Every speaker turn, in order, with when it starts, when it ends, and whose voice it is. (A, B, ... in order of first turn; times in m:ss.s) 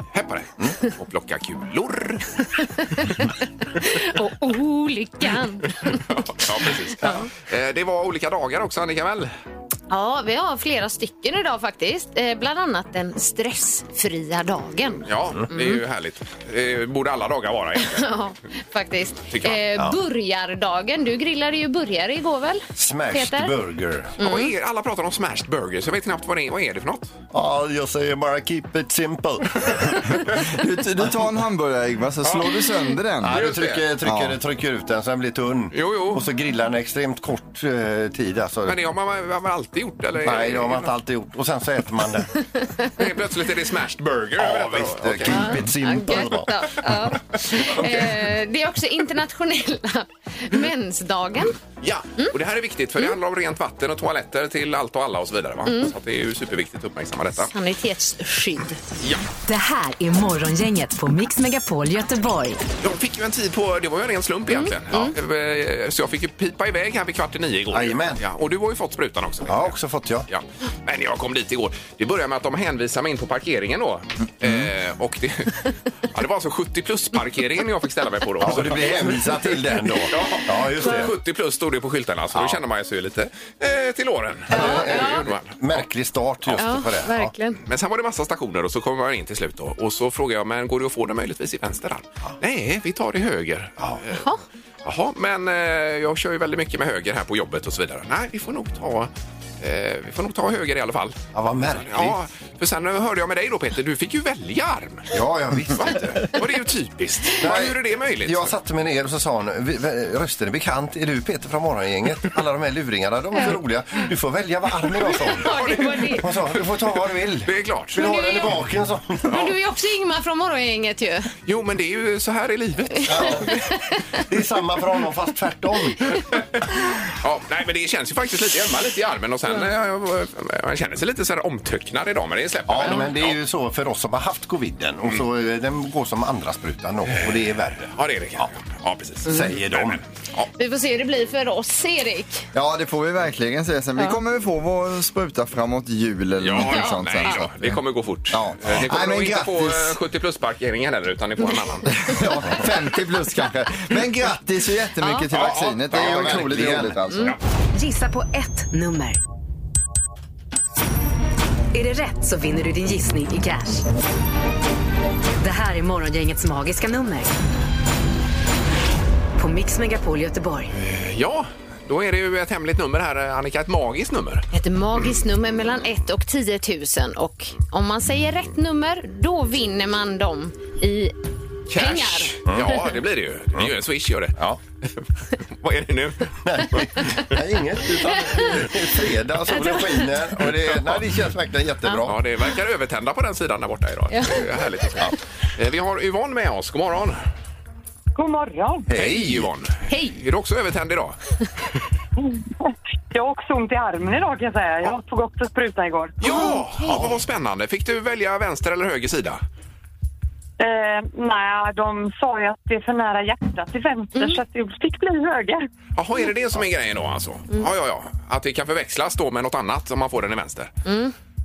0:00.1-0:02.5 A
0:02.8-0:06.0 B
0:05.9-0:09.3 A
0:07.0-0:07.3 B
0:09.9-0:15.8 B
0:15.1-0:18.1 A
0:17.8-0:23.5 B
0:19.3-0:19.6 A
0:22.8-0:24.1 C
0:24.2-0:24.5 B
0:24.2-0:27.1 A
0:27.3-0:30.2 C
0:30.3-0:33.4 D
0:32.2-0:32.5 A
0:33.2-0:38.8 C
0:33.2-0:33.9 A
0:34.0-0:34.4 D
0:35.7-0:36.3 A
0:38.6-0:40.9 A
0:40.2-0:42.3 C
0:42.9-0:45.6 A
0:44.4-0:46.9 C
0:45.3-0:51.6 B
0:47.6-0:48.1 C
0:51.8-0:57.5 A
0:55.6-0:55.9 B
0:57.4-0:58.8 B
0:59.0-0:59.2 A
0:59.4-1:02.6 E
1:02.8-1:09.8 A
1:04.5-1:05.1 B
1:07.7-1:08.2 C
1:09.5-1:10.3 C
1:10.3-1:25.8 A
1:18.4-1:21.1 C
1:22.3-1:22.6 C
1:24.5-1:27.3 C
1:24.5-1:25.3 B
1:26.6-1:27.6 B
1:27.6-1:34.2 A
1:34.2-1:34.4 B
1:34.8-1:39.1 A
1:39.6-1:45.1 A
1:41.3-1:42.2 C
1:45.1-1:46.3 C
1:45.7-1:48.5 A
1:47.3-1:59.6 C
1:54.9-1:56.3 B
1:55.4-1:56.6 A
1:57.4-1:58.0 A
1:58.0-1:58.5 B
1:59.3-2:01.3 B
2:01.4-2:03.5 A
2:03.0-2:04.2 B
2:03.0-2:03.6 C
2:04.2-2:06.2 C
2:07.2-2:13.4 A
2:12.7-2:18.5 C
2:17.8-2:20.5 A
2:19.2-2:20.0 C
2:20.6-2:22.4 B
2:22.5-2:27.8 D
2:26.4-2:32.2 A
2:26.7-2:27.4 B
2:28.3-2:30.0 D
2:32.0-2:37.3 D
2:35.3-2:36.6 A
2:35.9-2:37.0 C
2:37.7-2:39.2 E
2:41.7-2:43.8 E
2:45.4-2:47.3 E
2:49.4-2:50.7 E
2:50.7-2:54.4 A
2:54.5-3:01.1 B
3:01.7-3:07.3 A
3:01.7-3:02.3 B
3:02.5-3:02.8 C
3:06.4-3:12.2 C
3:08.1-3:08.9 B
3:09.5-3:10.2 B
3:10.5-3:11.0 A
3:12.0-3:17.2 A
3:14.1-3:14.4 B
3:18.2-3:18.9 F
3:18.9-3:19.5 C
3:18.9-3:21.2 A
3:19.9-3:20.2 B
3:22.2-3:26.2 F
3:26.2-3:29.4 A
3:26.2-3:27.0 B
3:26.8-3:27.2 C
3:30.6-3:35.6 F
3:34.1-3:34.4 B
3:36.0-3:40.7 A
3:40.8-3:41.1 B